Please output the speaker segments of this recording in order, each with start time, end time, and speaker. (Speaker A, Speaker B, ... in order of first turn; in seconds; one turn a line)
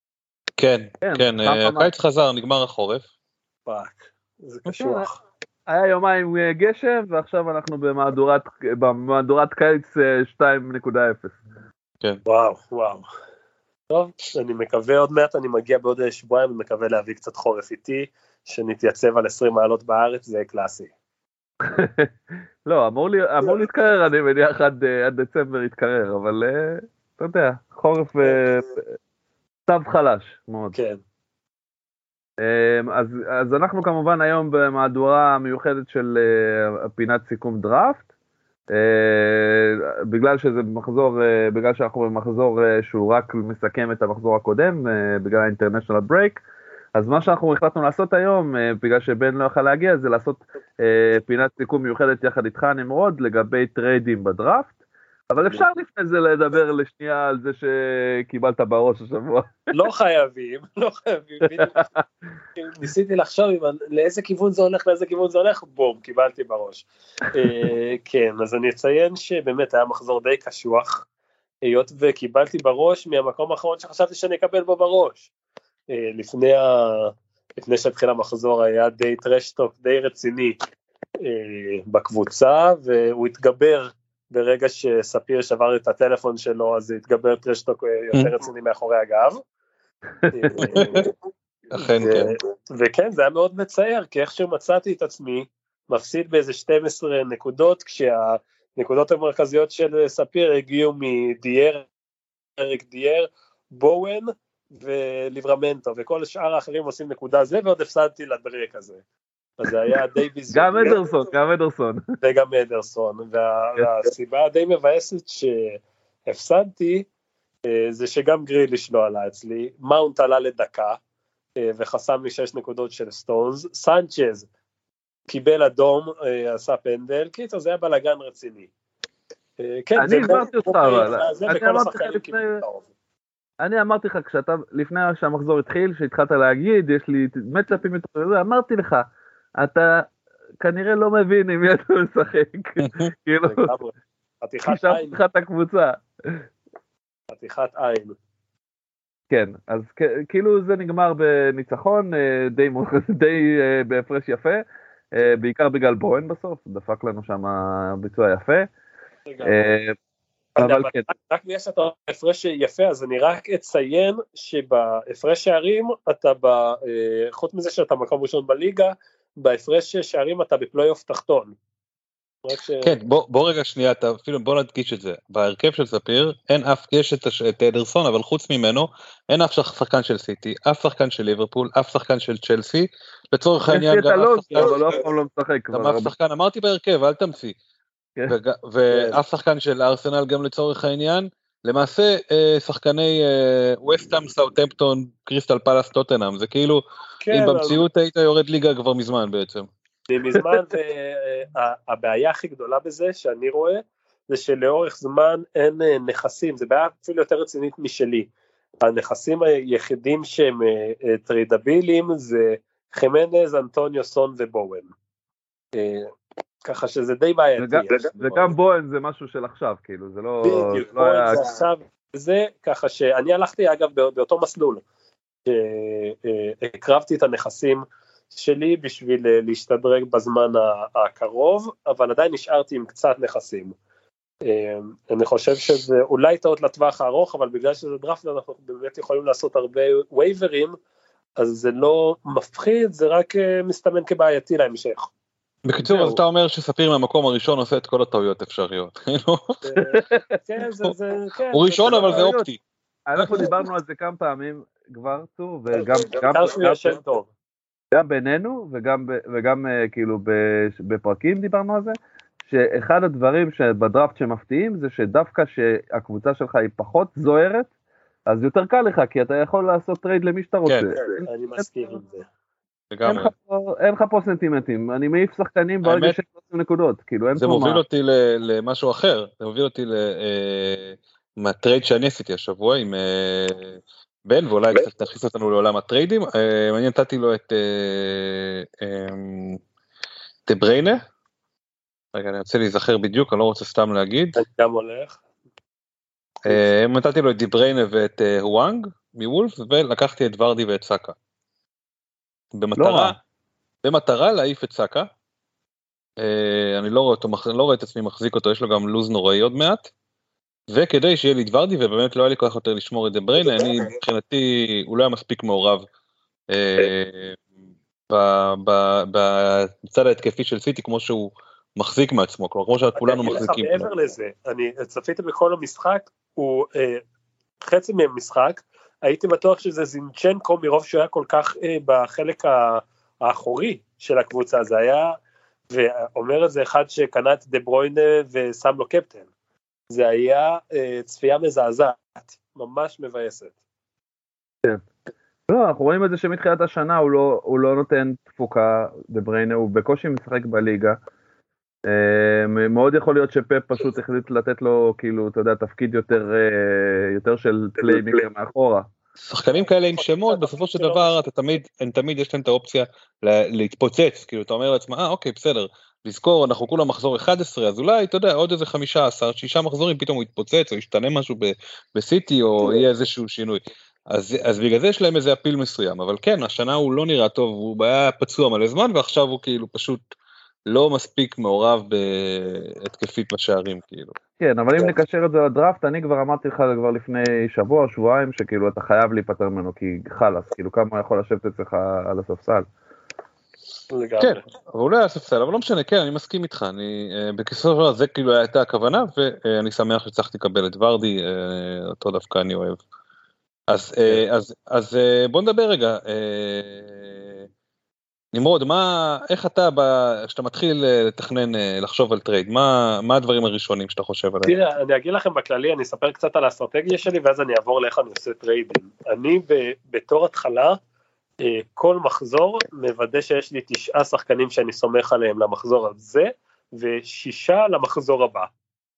Speaker A: 0.6-3.0
Speaker B: 1.0-1.9
Speaker C: 3.6-5.2
Speaker B: 4.7-5.1
Speaker B: 5.7-11.4
Speaker C: 12.2-13.0
Speaker C: 13.9-20.9
Speaker B: 21.6-22.1
Speaker B: 22.6-28.8
Speaker B: 29.7-30.8
Speaker C: 30.7-31.0
Speaker B: 32.4-38.0
Speaker B: 38.7-46.4
Speaker B: 46.9-54.7
Speaker B: 55.3-59.5
Speaker C: 59.7-61.8
Speaker B: 61.5-61.9
Speaker C: 62.6-71.0
Speaker C: 71.6-75.3
Speaker C: 75.9-80.6
Speaker C: 81.2-89.4
Speaker C: 90.3-91.1
Speaker A: 90.6-91.1
Speaker A: 91.7-92.3
Speaker C: 91.7-101.8
Speaker C: 102.6-109.0
Speaker C: 109.6-111.0
Speaker B: 110.5-112.0
Speaker C: 112.2-117.1
Speaker C: 117.7-121.0
Speaker C: 121.6-124.5
Speaker C: 125.3-128.7
Speaker C: 129.6-132.8
Speaker B: 130.0-132.6
Speaker B: 133.6-139.0
Speaker B: 139.6-140.1
Speaker B: 140.6-143.7
Speaker A: 142.8-143.1
Speaker C: 143.4-145.2
Speaker B: 144.7-146.4
Speaker C: 147.3-148.2
Speaker B: 149.3-154.6
Speaker B: 155.1-158.7
Speaker C: 159.3-159.7
Speaker B: 159.4-159.9
Speaker B: 160.6-161.1
Speaker C: 160.6-171.5
Speaker C: 172.4-173.0
Speaker A: 172.8-184.8
Speaker B: 183.7-186.1
Speaker A: 185.7-187.5
Speaker A: 188.3-199.7
Speaker C: 188.9-189.2
Speaker C: 197.2-197.8
Speaker C: 200.1-208.3
Speaker C: 208.8-214.9
Speaker C: 215.7-216.1
Speaker C: 216.6-218.5
Speaker B: 217.6-221.4
Speaker C: 220.4-224.8
Speaker C: 225.4-233.7
Speaker C: 234.4-240.8
Speaker C: 241.4-245.1
Speaker A: 245.6-249.6
Speaker B: 245.8-246.2
Speaker C: 249.6-252.3
Speaker B: 249.8-250.2
Speaker A: 251.5-252.6
Speaker B: 252.0-252.5
Speaker B: 253.1-256.9
Speaker C: 256.3-257.3
Speaker B: 257.9-262.0
Speaker B: 262.5-267.7
Speaker B: 268.3-271.7
Speaker C: 271.2-272.2
Speaker A: 272.9-273.3
Speaker B: 273.0-277.8
Speaker A: 275.8-276.2
Speaker A: 277.4-289.6
Speaker A: 290.5-291.0
Speaker A: 292.1-294.4
Speaker C: 294.3-295.2
Speaker A: 296.4-301.1
Speaker A: 302.6-303.2
Speaker B: 302.8-303.2
Speaker A: 303.8-305.1
Speaker A: 306.2-309.9
Speaker A: 310.7-315.9
Speaker A: 316.5-317.4
Speaker A: 318.1-323.9
Speaker C: 323.0-327.0
Speaker C: 327.6-335.2
Speaker C: 335.7-339.3
Speaker C: 339.9-343.5
Speaker B: 345.5-351.0
Speaker B: 351.9-358.9
Speaker A: 359.3-380.0
Speaker C: 359.9-361.2
Speaker A: 380.7-384.1
Speaker B: 384.4-392.6
Speaker C: 393.9-394.4
Speaker A: 394.2-402.8
Speaker A: 403.7-407.4
Speaker A: 408.3-414.6
Speaker C: 414.4-420.8
Speaker C: 421.4-428.5